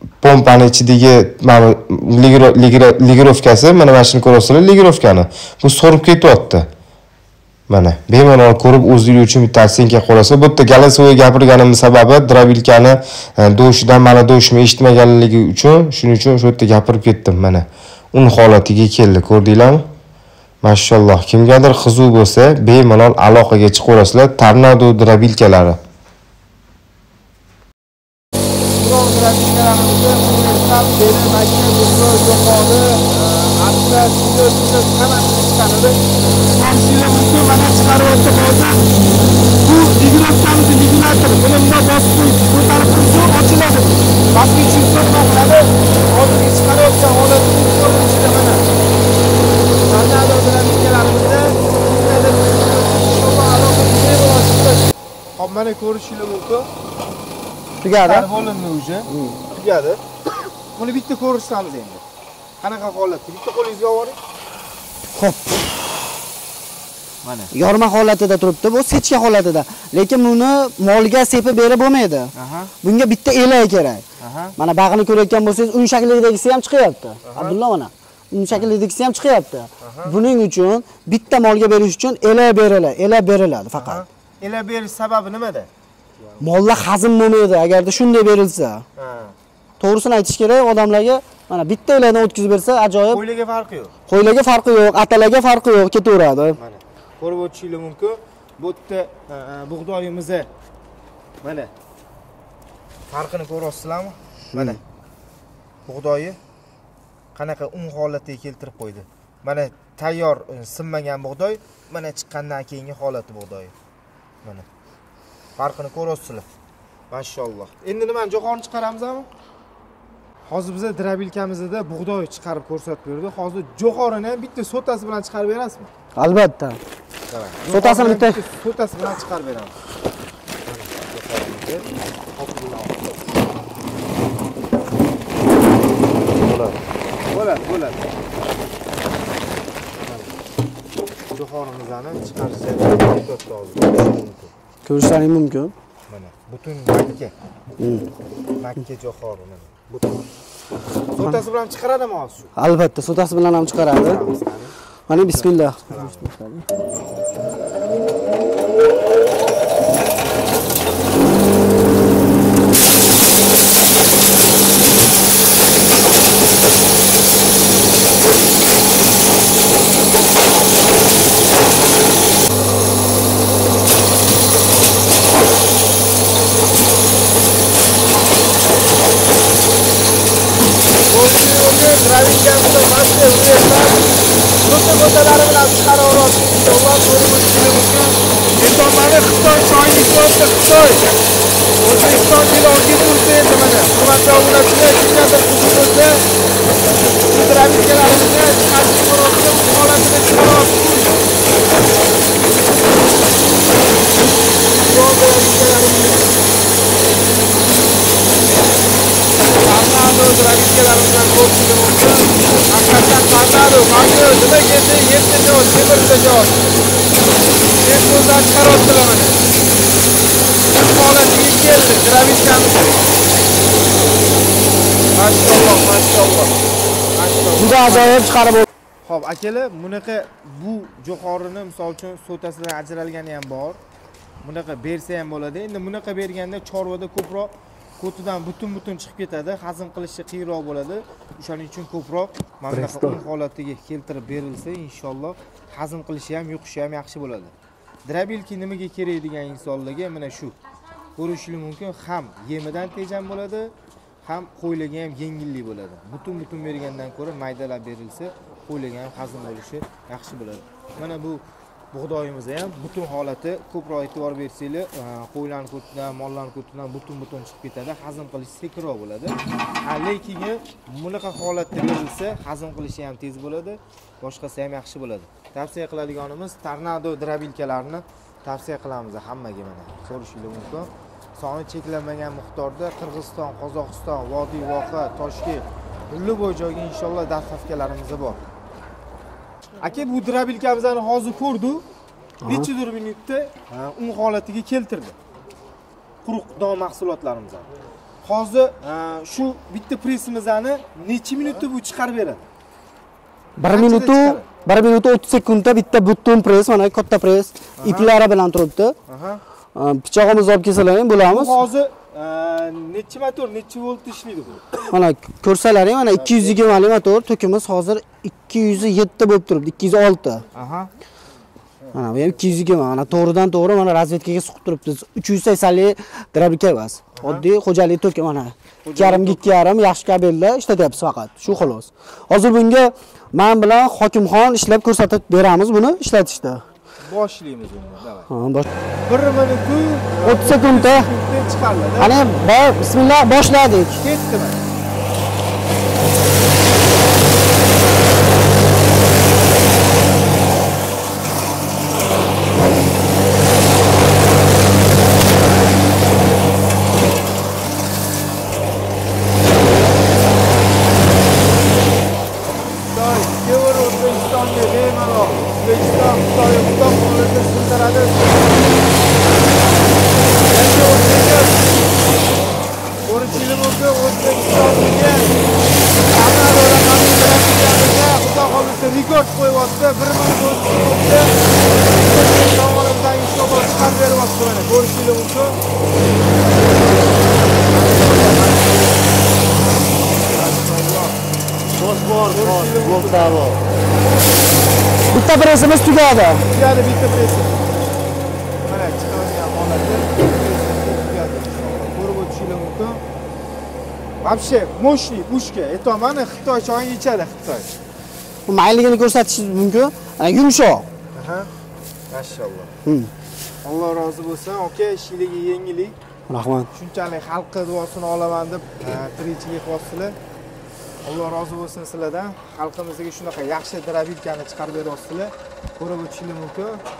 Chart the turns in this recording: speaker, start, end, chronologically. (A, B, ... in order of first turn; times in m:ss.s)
0:00.2-0:06.7 A
0:07.7-0:19.8 A
0:20.6-0:25.8 A
0:28.7-0:36.0 B
0:36.6-0:37.4 C
0:36.6-0:39.0 B
0:39.6-0:41.4 C
0:41.0-0:43.3 B
0:42.4-0:44.0 C
0:44.3-0:48.7 B
0:49.8-0:56.7 B
0:57.8-0:58.3 C
0:58.0-1:00.0 B
0:59.1-0:59.4 C
1:00.7-1:02.0 B
1:02.6-1:04.2 B
1:05.1-1:05.6 C
1:07.2-1:07.5 B
1:07.5-1:14.0 C
1:12.3-1:12.7 B
1:14.2-1:14.6 B
1:14.6-1:24.0 C
1:17.2-1:17.6 B
1:19.8-1:20.2 B
1:23.7-1:26.5 B
1:26.4-1:28.8 C
1:29.0-1:29.4 B
1:29.8-1:33.2 C
1:33.1-1:33.9 B
1:34.1-1:36.6 C
1:36.6-1:40.5 B
1:41.4-1:41.7 B
1:43.1-1:44.8 B
1:44.5-1:44.8 C
1:45.8-1:46.4 B
1:47.3-1:53.7 B
1:55.6-1:56.4 B
1:57.1-1:59.3 B
2:00.5-2:05.9 B
2:06.2-2:06.8 C
2:07.3-2:09.7 B
2:07.6-2:08.4 C
2:10.7-2:13.3 B
2:17.3-2:18.0 B
2:20.0-2:20.3 B
2:21.3-2:24.5 B
2:24.8-2:25.7 C
2:26.1-2:27.3 B
2:27.8-2:28.1 C
2:28.6-2:30.2 B
2:31.1-2:32.5 B
2:32.6-2:34.2 C
2:34.0-2:34.7 B
2:35.1-2:36.7 C
2:35.8-2:36.3 B
3:01.1-3:04.0 B
3:04.6-3:11.1 B
3:11.8-3:16.2 B
3:17.2-3:21.1 B
3:24.8-3:26.3 B
3:29.4-3:36.7 B
3:37.8-3:39.4 B
3:40.7-3:43.1 B
3:45.1-3:46.6 B
3:47.1-3:48.3 B
3:47.6-3:48.6 C
3:49.0-3:53.8 B
3:54.4-4:07.5 B
4:02.7-4:03.2 C
4:08.0-4:10.5 B
4:11.2-4:13.7 B
4:14.2-4:21.4 B
4:21.9-4:48.4 B
4:49.8-4:51.8 B
4:52.4-4:52.7 C
4:52.4-4:55.2 B
4:56.2-4:57.7 B
4:58.2-5:02.4 B
5:03.6-5:09.0 C
5:03.7-5:04.5 B
5:07.8-5:08.1 B
5:09.1-5:09.4 B
5:09.7-5:11.6 C
5:11.2-5:14.6 B
5:14.7-5:20.4 C
5:16.1-5:16.8 B
5:20.5-5:20.9 B
5:21.9-5:36.6 C
5:27.2-5:27.4 B
5:28.8-5:29.5 B
5:37.0-5:38.3 B
5:38.3-5:38.7 C
5:39.0-5:42.2 B
5:40.2-5:41.1 C
5:42.0-5:44.0 C
5:44.0-5:44.6 B
6:02.9-6:08.6 B
6:10.4-6:11.6 B
6:13.0-6:15.4 B
6:16.0-6:25.6 B
6:27.6-6:29.2 B
6:29.8-6:31.2 B
6:32.0-6:33.6 B
6:35.1-6:36.5 C
6:36.5-6:37.7 B
6:38.7-6:43.0 B
6:44.2-6:47.7 B
6:48.5-6:50.9 C
6:51.1-6:51.5 B
6:52.1-6:52.8 B
6:52.8-6:53.1 C
6:53.6-6:56.0 B
6:56.3-6:56.7 C
6:56.7-7:00.2 B
7:01.0-7:06.8 B